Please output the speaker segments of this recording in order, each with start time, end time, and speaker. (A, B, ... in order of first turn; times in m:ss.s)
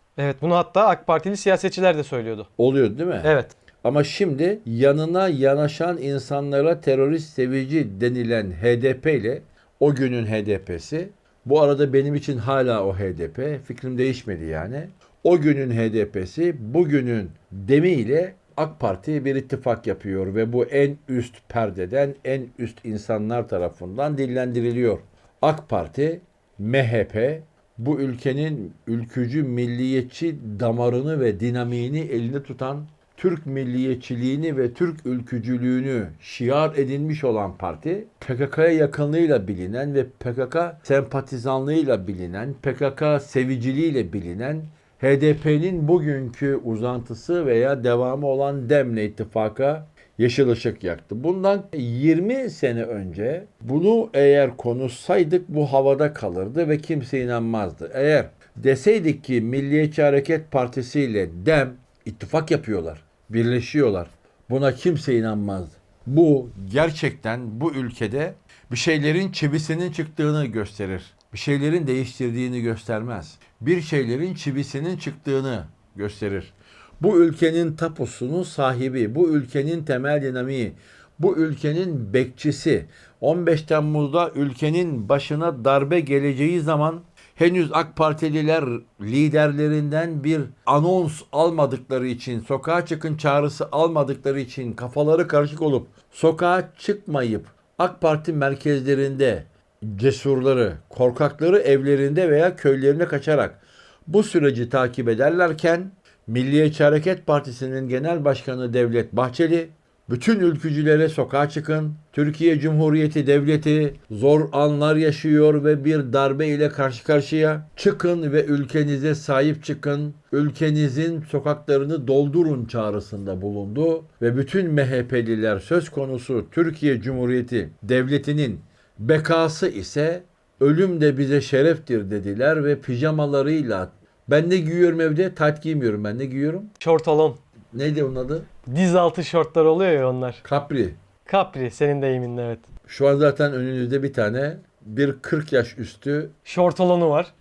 0:00.2-0:02.5 A
0:02.6-2:16.7 B
0:03.2-0:03.6 A
2:16.8-2:17.4 A
2:17.7-2:18.5 B
2:18.7-2:20.4 A
2:20.4-2:21.0 B
2:21.2-2:22.7 A
2:22.9-2:26.3 B
2:26.4-2:27.3 A